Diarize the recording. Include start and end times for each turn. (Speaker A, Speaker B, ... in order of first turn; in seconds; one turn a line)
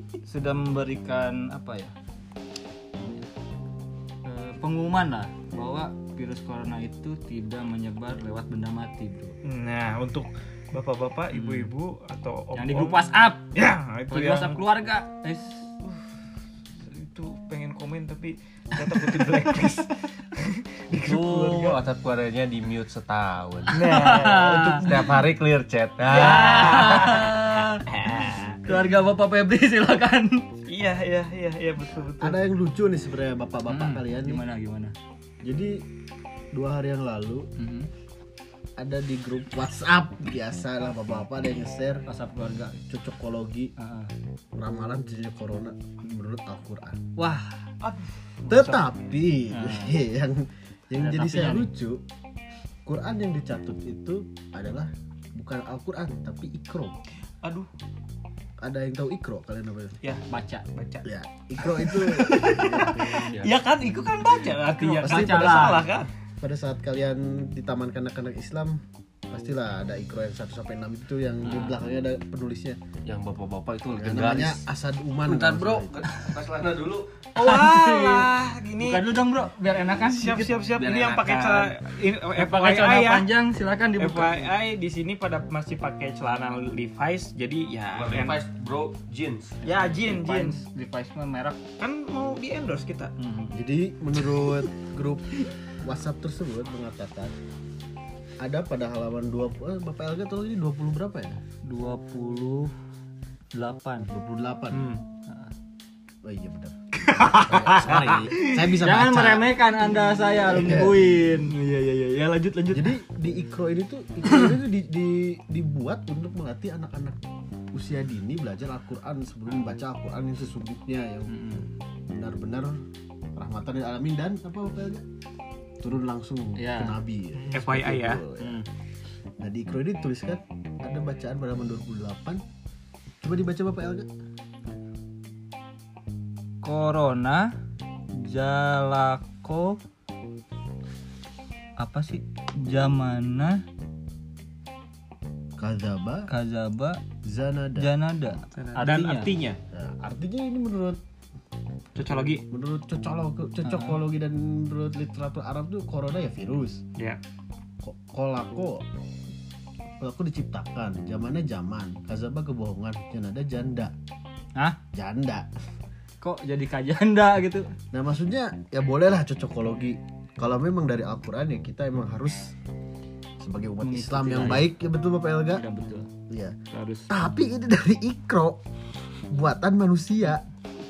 Speaker A: 0.2-1.9
Speaker A: 4.2-9.3
Speaker B: 9.4-14.6
Speaker A: 11.3-11.7
Speaker A: 12.5-13.5
Speaker A: 14.1-15.7
Speaker B: 16.9-21.8
Speaker C: 20.9-27.2
Speaker A: 23.7-24.9
Speaker B: 23.7-25.1
Speaker B: 26.0-28.9
Speaker A: 26.1-27.8
Speaker A: 28.6-30.4
Speaker B: 30.7-32.4
Speaker D: 32.2-34.4
Speaker A: 33.7-34.9
Speaker D: 35.4-35.8
Speaker D: 36.5-37.5
Speaker A: 37.6-37.9
Speaker D: 38.8-42.0
Speaker A: 42.1-42.8
Speaker D: 42.9-43.7
Speaker A: 43.8-44.1
Speaker D: 44.5-47.0
Speaker A: 47.2-47.6
Speaker B: 47.8-48.9
Speaker D: 48.5-52.0
Speaker A: 49.5-50.0
Speaker A: 51.0-51.7
Speaker D: 52.9-56.9
Speaker B: 57.4-57.7
Speaker D: 58.6-60.0
Speaker B: 60.0-61.0
Speaker A: 60.3-60.6
Speaker D: 61.0-63.1
Speaker B: 61.8-66.1
Speaker C: 63.1-63.5
Speaker A: 64.7-65.9
Speaker D: 65.0-65.5
Speaker D: 66.4-72.8
Speaker A: 71.4-71.8
Speaker C: 73.0-74.6
Speaker D: 74.0-76.0
Speaker C: 75.2-77.1
Speaker B: 77.3-79.0
Speaker A: 77.4-80.5
Speaker B: 80.1-83.3
Speaker C: 80.7-81.7
Speaker A: 82.3-84.4
Speaker B: 84.0-88.4
Speaker C: 87.9-89.6
Speaker B: 89.6-90.6
Speaker A: 89.6-91.6
Speaker B: 91.8-93.1
Speaker A: 93.2-93.6
Speaker D: 93.5-97.3
Speaker D: 98.4-101.4
Speaker A: 101.6-102.7
Speaker A: 103.5-104.1
Speaker D: 104.1-104.8
Speaker B: 104.7-105.0
Speaker A: 105.3-105.5
Speaker D: 106.2-106.8
Speaker B: 107.0-108.7
Speaker D: 107.3-109.6
Speaker C: 107.8-108.3
Speaker A: 108.8-111.5
Speaker D: 110.4-111.1
Speaker B: 111.5-112.9
Speaker D: 112.7-117.2
Speaker D: 117.7-121.3
Speaker A: 121.3-121.7
Speaker D: 122.1-122.8
Speaker D: 123.3-125.0
Speaker D: 125.8-128.6
Speaker A: 126.5-127.0
Speaker B: 127.4-128.2
Speaker A: 128.4-128.7
Speaker D: 129.4-132.4
Speaker D: 133.2-134.1
Speaker A: 136.6-137.5
Speaker A: 138.1-139.8
Speaker A: 141.8-143.6
Speaker D: 145.6-146.3
Speaker A: 146.3-147.0
Speaker D: 147.2-147.9
Speaker A: 147.8-149.3
Speaker B: 148.5-149.6
Speaker D: 149.7-151.0
Speaker B: 151.9-152.4
Speaker D: 152.5-156.8
Speaker A: 153.6-154.0
Speaker D: 157.8-158.8
Speaker D: 160.0-163.9
Speaker D: 164.9-165.5
Speaker A: 166.2-167.7
Speaker D: 167.9-172.5
Speaker D: 173.4-175.6
Speaker A: 173.8-174.7
Speaker A: 175.5-176.1
Speaker D: 176.3-176.6
Speaker A: 176.7-177.1
Speaker D: 177.1-178.6
Speaker D: 179.3-180.4